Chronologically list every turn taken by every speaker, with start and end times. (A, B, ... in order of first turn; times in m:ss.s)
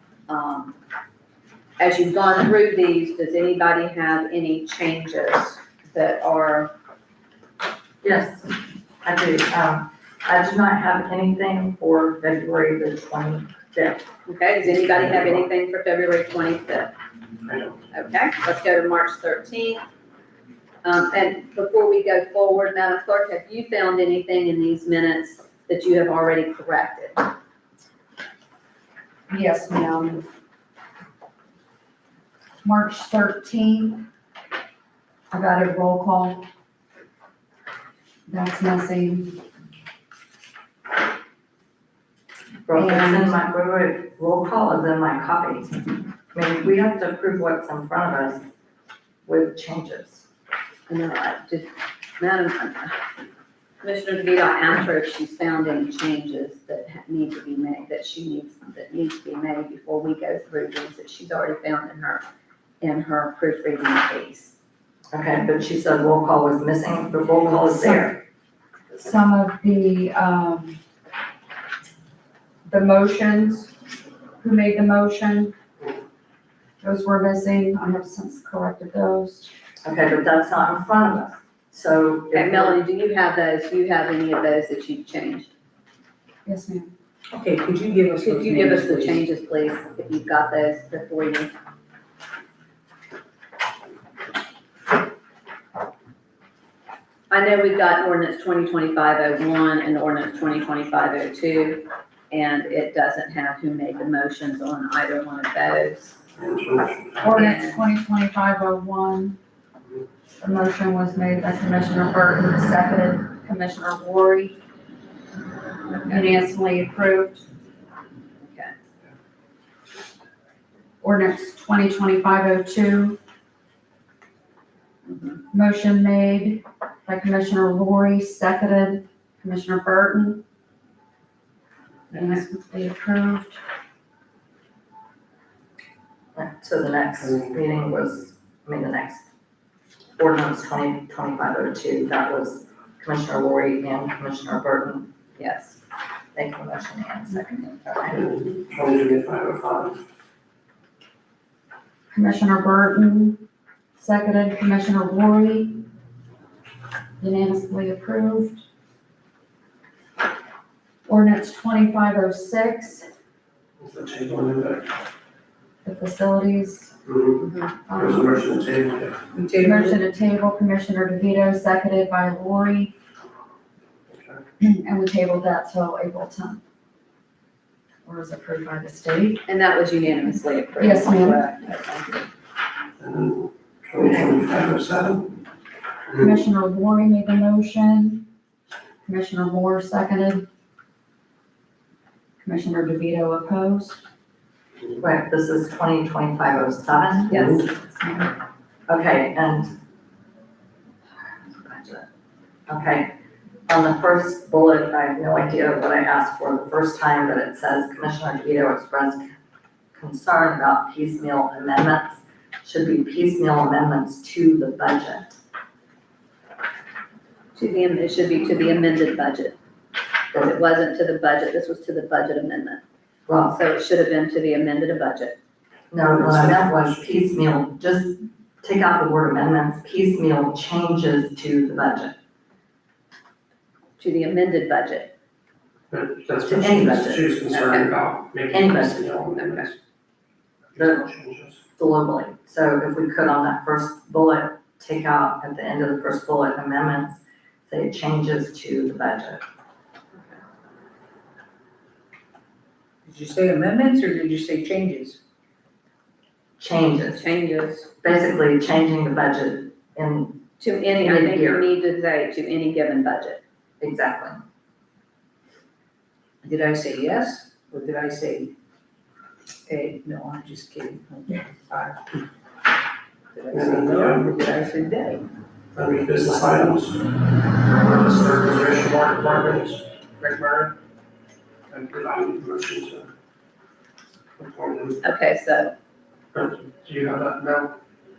0:00.3-0:00.7 A
0:01.8-0:06.7 A
0:08.0-0:14.0 B
0:14.2-0:16.9 A
0:17.5-0:17.8 C
0:17.9-0:19.8 A
0:20.8-0:27.3 A
0:29.3-0:30.2 D
0:32.6-0:34.1 D
0:35.3-0:36.5 D
0:38.3-0:39.4 D
0:42.7-0:48.4 B
0:42.7-0:43.3 D
0:49.2-0:50.2 B
0:50.9-0:53.0 A
0:53.8-1:02.2 A
1:02.8-1:04.5 A
1:05.1-1:08.2 B
1:07.5-1:08.0 D
1:08.9-1:10.8 D
1:12.6-1:13.7 D
1:14.4-1:15.5 D
1:16.8-1:19.5 D
1:19.8-1:22.8 B
1:22.3-1:25.5 A
1:26.4-1:26.9 D
1:27.3-1:29.2 E
1:28.2-1:31.5 A
1:37.3-1:46.2 A
1:46.4-1:47.3 C
1:47.2-1:49.4 D
1:47.3-1:47.8 A
1:50.4-1:54.6 D
1:56.0-1:57.4 D
1:58.4-1:58.7 A
2:01.0-2:03.2 D
2:05.0-2:05.4 A
2:05.5-2:10.4 D
2:12.1-2:13.6 D
2:12.1-2:12.4 A
2:16.3-2:19.2 B
2:20.2-2:25.2 B
2:25.4-2:25.8 A
2:26.3-2:28.2 B
2:28.1-2:30.0 C
2:32.1-2:33.4 D
2:34.0-2:35.8 D
2:37.2-2:38.6 D
2:41.0-2:43.1 D
2:43.8-2:44.9 C
2:45.8-2:46.9 D
2:47.0-2:49.2 C
2:47.4-2:47.7 A
2:47.9-2:48.4 D
2:49.3-2:50.0 E
2:49.6-2:52.9 D
2:54.1-2:54.4 C
2:54.6-2:56.6 D
2:58.0-2:59.4 D
2:59.4-3:02.3 A
3:00.8-3:01.5 D
3:03.0-3:05.3 C
3:06.2-3:08.2 D
3:09.0-3:10.4 D
3:12.4-3:14.0 D
3:15.0-3:17.4 B
3:17.3-3:17.6 C
3:17.3-3:17.7 A
3:17.4-3:18.3 D
3:18.9-3:19.8 B
3:21.5-3:22.0 B
3:22.7-3:23.1 B
3:23.7-3:29.3 B
3:30.0-3:35.4 B
3:37.5-3:39.5 A
3:40.3-3:42.8 A
3:43.3-3:43.6 B
3:43.5-3:45.4 A
3:45.9-3:52.1 B
3:46.0-3:46.9 C
3:54.0-3:55.1 A
3:55.9-3:59.8 C
3:56.4-3:57.2 B
3:57.5-3:57.9 A
3:58.5-3:59.1 B
3:59.4-3:59.6 A
4:00.7-4:01.6 C
4:00.8-4:01.0 B
4:01.8-4:09.4 B
4:13.0-4:15.2 E
4:16.6-4:17.3 B
4:17.0-4:17.9 A
4:18.0-4:21.6 B
4:20.6-4:23.4 A
4:23.8-4:24.4 B
4:26.4-4:28.5 E
4:29.7-4:32.0 E
4:33.3-4:35.2 E
4:33.5-4:34.4 C
4:35.7-4:40.8 C
4:41.7-4:43.1 C
4:44.4-4:45.0 C
4:45.0-4:45.7 A
4:46.3-4:47.7 C